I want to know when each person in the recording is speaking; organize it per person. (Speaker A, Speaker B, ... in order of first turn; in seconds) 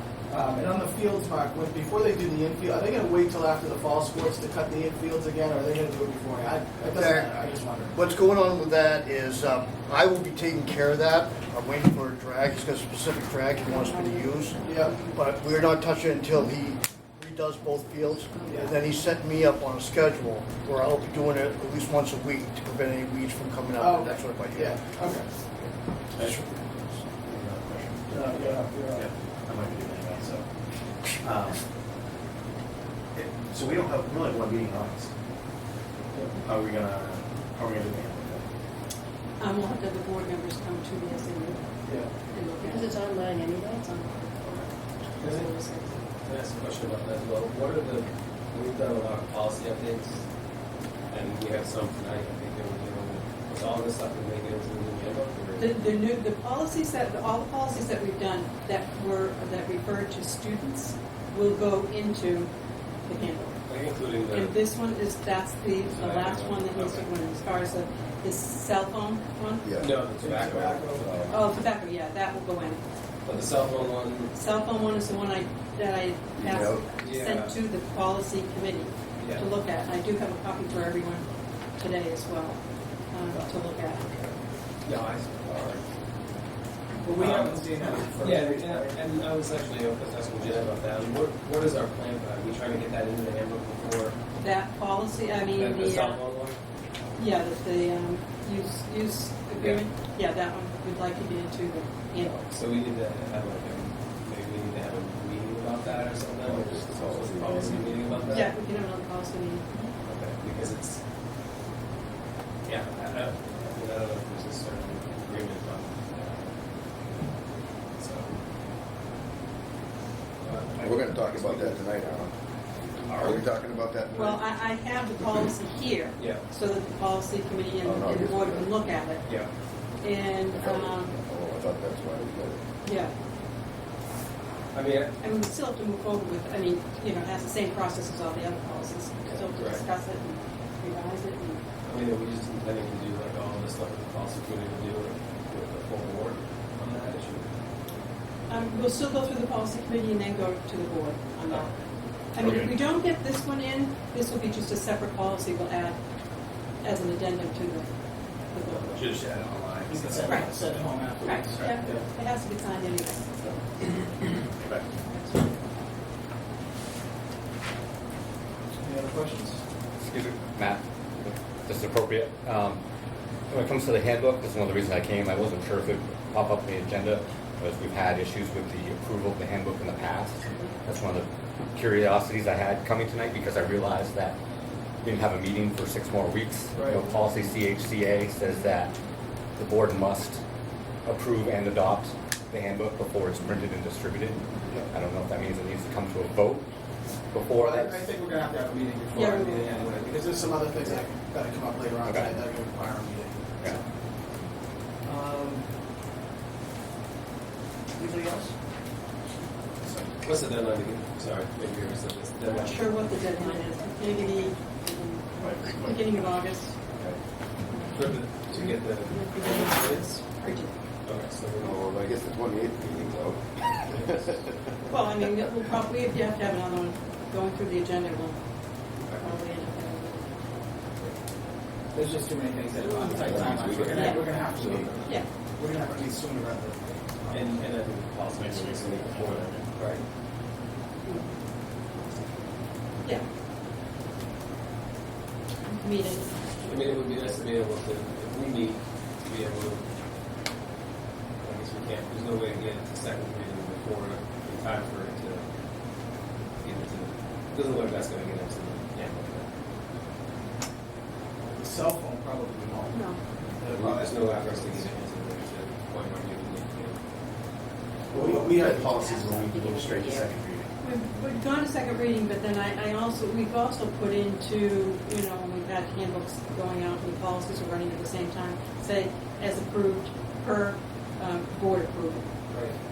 Speaker A: 0.3-7.9, 14.6-14.9, 23.8-25.3, 28.1-29.1, 45.2-45.5, 70.2-71.0, 87.0-89.1, 159.9-162.0, 168.8-169.6, 186.7-187.1, 197.5-203.8, 205.0-205.6, 208.0-208.5, 231.9-237.6, 261.5-263.0, 263.6-264.9, 268.1-268.9
Speaker B: 6.8-7.4, 7.9-24.8, 26.1-27.0
Speaker C: 13.7-15.1, 39.4-41.6, 42.3-43.1, 45.2-45.9, 55.6-62.5, 63.0-63.6, 64.3-69.6, 71.3-72.8, 74.3-81.2, 81.8-82.6, 83.1-84.1, 94.4-96.2, 97.2-102.4, 108.3-109.8, 124.1-129.2, 130.0-131.1, 132.8-133.1, 135.2-141.6, 148.5-151.7, 152.3-156.0, 156.8-157.9, 158.5-159.0, 160.2-160.5, 161.2-163.2, 165.1-165.5, 199.1-199.9, 212.5-216.8, 217.7-218.0, 218.5-220.7, 224.9-228.4, 229.2-230.3, 233.9-234.3, 245.7-246.3, 262.9-263.2, 270.8-282.2
Speaker D: 26.2-26.4, 27.2-30.4, 31.1-31.6, 33.1-35.1, 36.4-38.4, 152.4-152.7, 158.7-160.5, 163.4-164.9, 215.4-216.2, 238.3-239.6, 268.2-270.7
Speaker E: 42.6-44.1, 213.1-214.6, 268.1-270.3
Speaker F: 46.2-50.2, 51.1-55.8, 63.6-64.6, 65.8-67.1, 69.8-71.3, 73.2-74.3, 77.0-77.5, 79.2-79.4, 84.8-85.8, 87.1-94.2, 95.5-96.6, 99.5-99.8, 102.2-108.5, 110.0-111.0, 112.7-116.5, 118.0-118.3, 120.4-122.2, 123.0-123.5, 126.2-126.4, 129.2-129.5, 134.7-135.1, 139.3-139.8, 141.8-147.5, 210.2-213.1, 217.9-220.1, 221.0-221.8, 229.1-229.3, 237.3-240.0, 246.6-249.8, 251.4-255.4, 256.6-259.5, 263.7-267.0
Speaker G: 69.6-69.9, 76.4-76.8, 106.5-108.2, 120.8-122.3, 123.2-124.4, 127.8-128.7, 130.5-132.6, 221.6-223.4, 224.0-224.3, 233.3-234.2
Speaker H: 170.0-172.8, 173.5-184.3, 185.0-188.9, 189.6-190.4, 191.0-196.7, 197.3-198.1, 202.0-202.3